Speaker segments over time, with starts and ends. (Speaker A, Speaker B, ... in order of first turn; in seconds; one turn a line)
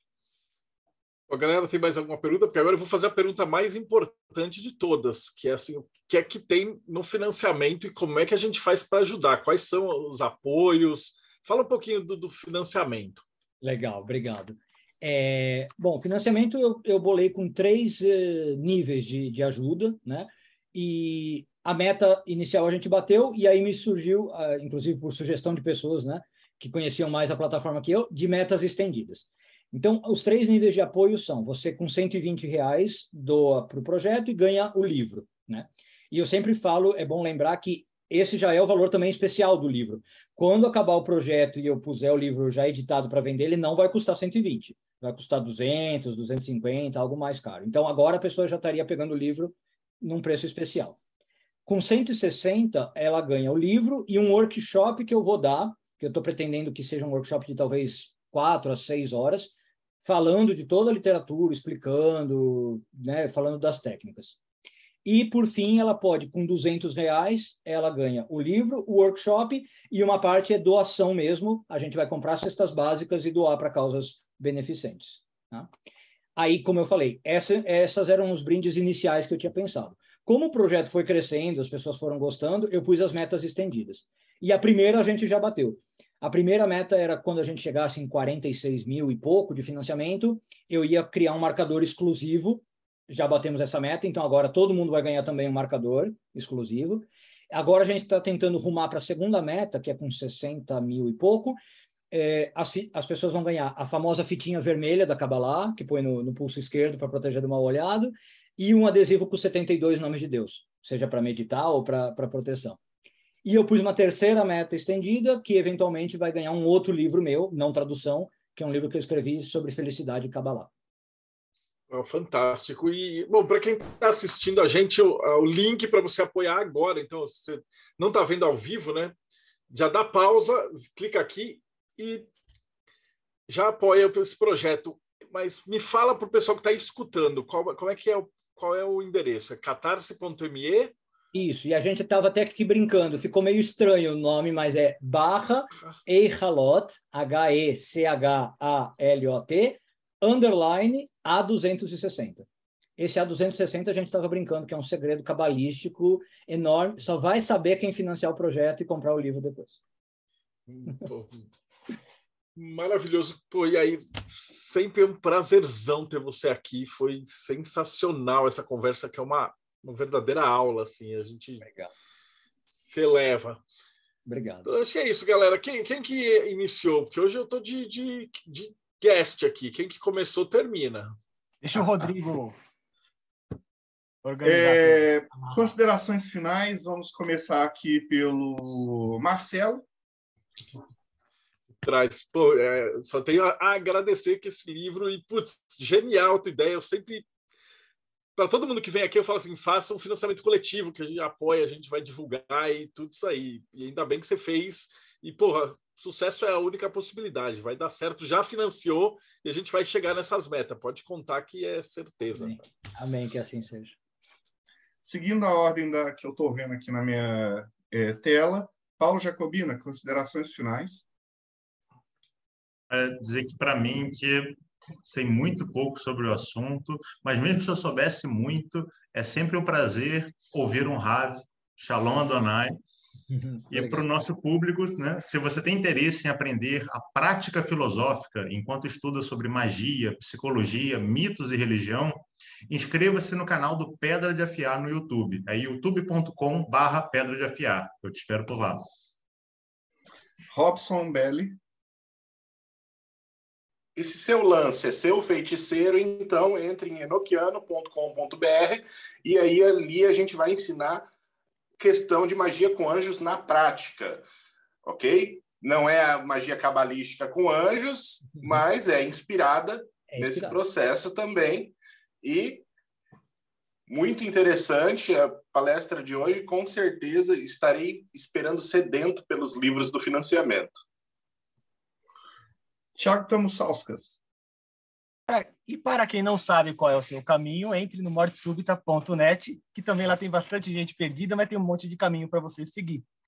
Speaker A: 1.3-13.2
Speaker B: 13.6-51.0
Speaker B: 51.7-64.4
Speaker B: 65.0-75.7
Speaker B: 76.4-101.6
Speaker B: 102.1-112.8
Speaker B: 113.4-120.7
Speaker A: 121.9-129.2
Speaker A: 129.7-132.3
Speaker A: 133.5-140.9
Speaker B: 141.3-152.5
Speaker B: 153.0-159.8
Speaker A: 160.7-161.5
Speaker A: 162.6-171.6
Speaker B: 171.6-171.9
Speaker A: 172.7-173.6
Speaker B: 174.3-174.7
Speaker A: 174.6-181.2
Speaker C: 181.6-182.6
Speaker C: 184.2-185.6
Speaker D: 184.4-189.8
Speaker A: 191.8-197.3
Speaker A: 198.4-212.7
Speaker B: 212.3-214.0
Speaker D: 215.0-221.1
Speaker E: 222.9-232.8
Speaker B: 233.3-234.1
Speaker E: 233.7-248.8
Speaker D: 250.5-251.6
Speaker F: 254.0-261.1
Speaker F: 261.8-264.2
Speaker F: 264.8-272.6
Speaker B: 270.1-270.6
Speaker F: 273.9-280.8
Speaker D: 283.0-284.2
Speaker C: 285.3-293.0